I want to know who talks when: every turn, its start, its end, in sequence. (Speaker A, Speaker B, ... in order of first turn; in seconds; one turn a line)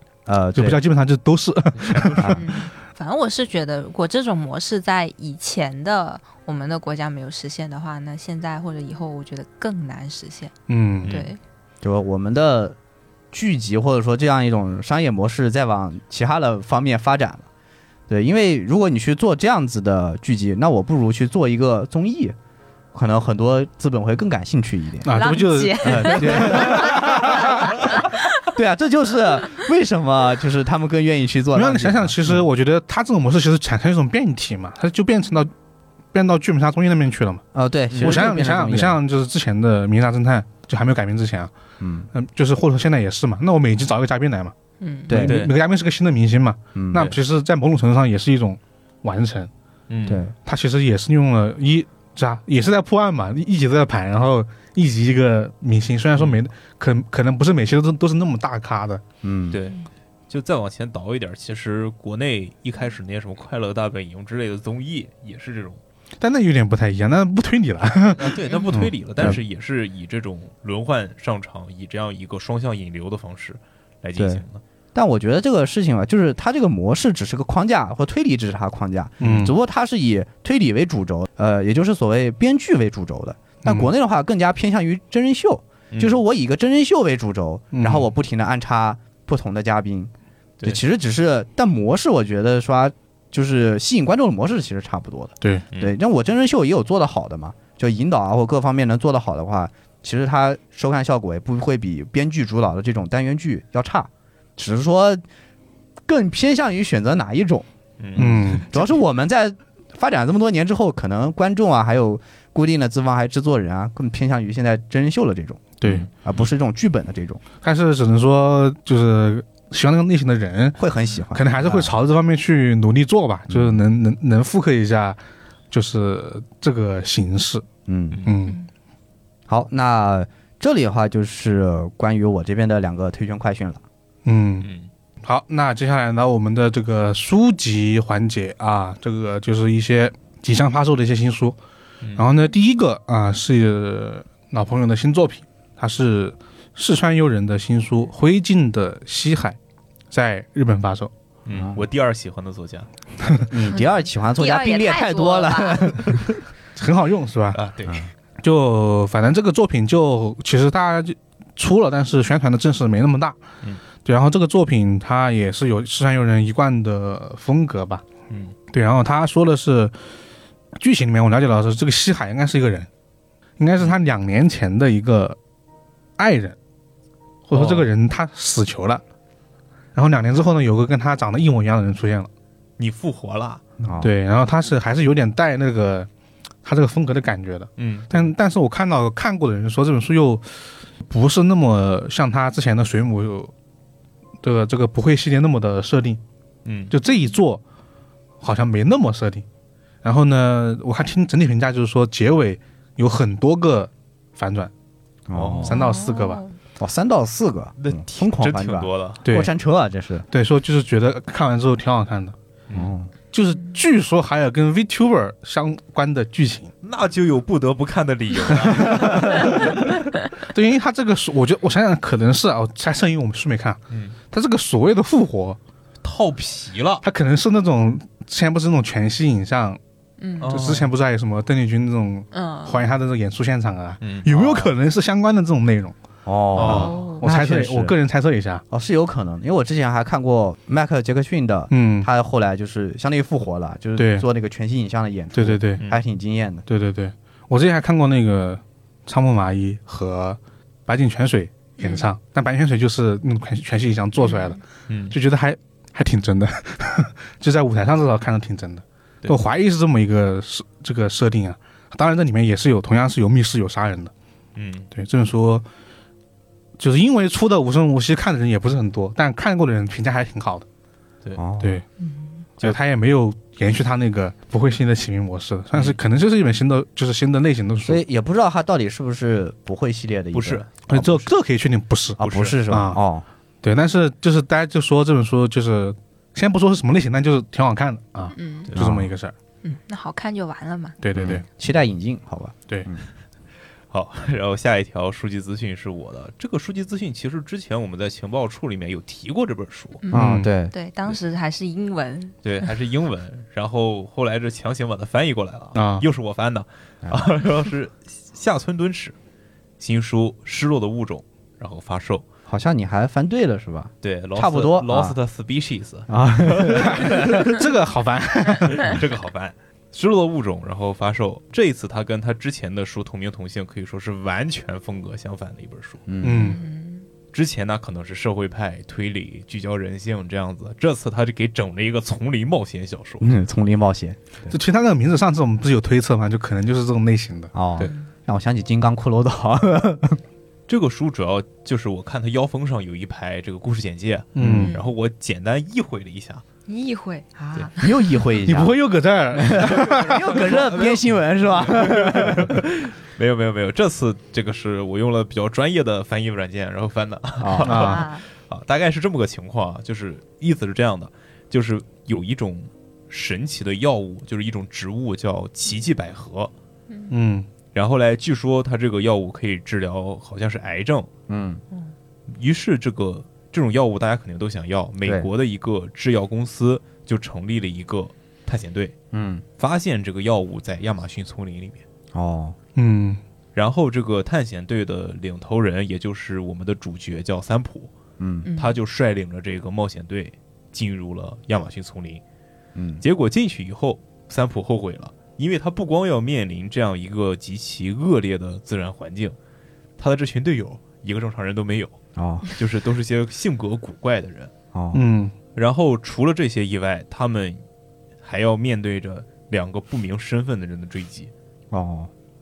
Speaker A: 0.3-0.8
Speaker B: 0.5-2.4
Speaker C: 1.8-2.2
Speaker A: 2.2-2.4
Speaker D: 2.4-10.5
Speaker B: 10.7-11.2
Speaker C: 11.0-11.3
Speaker D: 11.1-11.4
Speaker A: 11.8-12.8
Speaker A: 13.3-17.4
Speaker A: 18.1-22.4
Speaker A: 22.9-25.1
Speaker B: 25.0-27.6
Speaker D: 25.1-28.2
Speaker A: 25.8-32.4
Speaker B: 31.5-35.5
Speaker B: 36.1-37.4
Speaker A: 37.5-39.0
Speaker C: 37.9-38.2
Speaker B: 38.0-41.5
Speaker A: 41.8-42.1
Speaker B: 42.1-44.5
Speaker D: 44.8-45.1
Speaker A: 45.1-45.4
Speaker B: 45.1-49.5
Speaker C: 45.2-45.5
Speaker A: 46.7-47.1
Speaker C: 49.9-50.2
Speaker A: 50.0-50.3
Speaker B: 50.4-59.0
Speaker A: 59.2-59.6
Speaker C: 59.5-65.8
Speaker B: 66.2-69.3
Speaker C: 68.1-74.6
Speaker A: 74.2-74.4
Speaker A: 74.9-90.1
Speaker B: 79.2-79.5
Speaker B: 83.6-83.9
Speaker C: 85.9-86.2
Speaker B: 87.7-88.1
Speaker A: 90.6-105.2
Speaker A: 106.1-117.4
Speaker C: 108.0-108.6
Speaker B: 108.2-108.7
Speaker B: 115.8-116.1
Speaker B: 117.6-120.8
Speaker A: 120.8-122.0
Speaker B: 121.3-125.2
Speaker A: 123.5-123.8
Speaker B: 125.7-127.7
Speaker A: 127.9-128.2
Speaker C: 128.1-128.4
Speaker B: 128.2-128.6
Speaker A: 129.5-133.8
Speaker B: 134.2-134.7
Speaker C: 134.6-134.9
Speaker B: 135.2-141.6
Speaker B: 142.1-149.6
Speaker B: 150.1-151.1
Speaker C: 151.4-152.9
Speaker A: 151.5-151.8
Speaker A: 153.5-156.3
Speaker D: 154.4-156.1
Speaker B: 156.8-157.6
Speaker C: 157.5-158.1
Speaker B: 158.4-163.4
Speaker B: 164.0-168.0
Speaker C: 168.3-168.5
Speaker B: 168.7-169.9
Speaker B: 170.7-172.9
Speaker B: 173.6-175.4
Speaker B: 176.2-176.6
Speaker B: 177.5-179.0
Speaker C: 177.5-177.8
Speaker B: 179.9-182.3
Speaker C: 182.8-183.6
Speaker A: 183.8-184.1
Speaker B: 184.0-186.1
Speaker B: 186.6-193.5
Speaker C: 187.8-188.2
Speaker B: 194.4-196.2
Speaker C: 196.6-196.9
Speaker B: 196.9-197.6
Speaker B: 198.4-199.4
Speaker B: 200.0-204.7
Speaker A: 205.3-205.8
Speaker C: 205.3-205.8
Speaker B: 205.6-206.4
Speaker D: 205.7-206.6
Speaker A: 206.8-210.3
Speaker C: 207.8-209.2
Speaker B: 209.2-209.5
Speaker B: 210.3-212.3
Speaker A: 212.7-213.1
Speaker B: 213.3-216.7
Speaker C: 216.8-219.8
Speaker B: 218.6-219.7
Speaker B: 220.4-225.6
Speaker C: 223.9-224.2
Speaker C: 226.0-227.0
Speaker B: 227.0-229.8
Speaker D: 230.2-230.5
Speaker C: 230.4-230.9
Speaker B: 230.4-235.9
Speaker D: 232.3-232.8
Speaker C: 234.0-234.6
Speaker A: 236.3-237.9
Speaker C: 236.6-236.9
Speaker B: 236.6-238.6
Speaker D: 236.7-237.3
Speaker A: 238.7-246.6
Speaker B: 241.7-242.1
Speaker B: 244.0-244.3
Speaker B: 245.3-245.8
Speaker B: 246.7-254.6
Speaker D: 251.8-252.1
Speaker D: 254.2-254.6
Speaker C: 254.9-255.2
Speaker B: 255.1-264.1
Speaker C: 264.6-264.9
Speaker B: 264.9-265.6
Speaker B: 266.8-270.6
Speaker A: 271.4-271.8
Speaker B: 272.6-278.0
Speaker A: 277.9-281.1
Speaker C: 280.3-281.1
Speaker B: 280.9-283.0
Speaker A: 282.2-283.2
Speaker C: 282.2-282.6
Speaker B: 283.6-289.3
Speaker D: 288.3-288.7
Speaker A: 288.8-289.1
Speaker D: 289.6-291.0
Speaker B: 291.0-291.4
Speaker A: 291.1-293.1
Speaker C: 293.9-300.0
Speaker D: 300.0-302.4
Speaker A: 300.1-300.7
Speaker B: 300.1-300.5
Speaker C: 302.4-309.1
Speaker B: 305.7-306.1
Speaker C: 309.8-312.3
Speaker A: 312.5-315.1
Speaker C: 314.0-317.5
Speaker A: 316.1-317.4
Speaker B: 316.8-319.0
Speaker C: 318.6-326.0
Speaker A: 326.1-326.6
Speaker B: 326.2-326.6
Speaker D: 326.3-327.1
Speaker C: 327.3-333.3
Speaker A: 333.2-334.6
Speaker B: 334.5-337.5
Speaker A: 337.5-340.2
Speaker D: 337.8-338.1
Speaker C: 340.7-346.4
Speaker B: 344.3-344.7
Speaker A: 344.4-344.7
Speaker D: 344.6-344.9
Speaker D: 346.7-348.1
Speaker A: 347.8-348.7
Speaker B: 348.4-350.3
Speaker A: 349.4-352.6
Speaker C: 349.5-366.5
Speaker A: 357.4-357.9
Speaker B: 357.6-358.1
Speaker D: 357.7-358.2
Speaker B: 367.1-367.5
Speaker C: 367.7-371.1
Speaker A: 371.3-371.6
Speaker C: 372.3-378.9
Speaker A: 379.1-379.4
Speaker C: 379.6-381.8
Speaker A: 382.1-382.6
Speaker B: 382.8-383.2
Speaker C: 383.6-387.9
Speaker A: 388.2-388.5
Speaker D: 388.4-388.8
Speaker C: 388.6-392.2
Speaker A: 392.7-393.0
Speaker C: 393.0-399.4
Speaker C: 400.0-404.5
Speaker A: 402.2-402.5
Speaker A: 404.7-405.0
Speaker B: 404.9-405.3
Speaker C: 405.6-407.6
Speaker C: 408.2-411.3
Speaker A: 411.7-412.1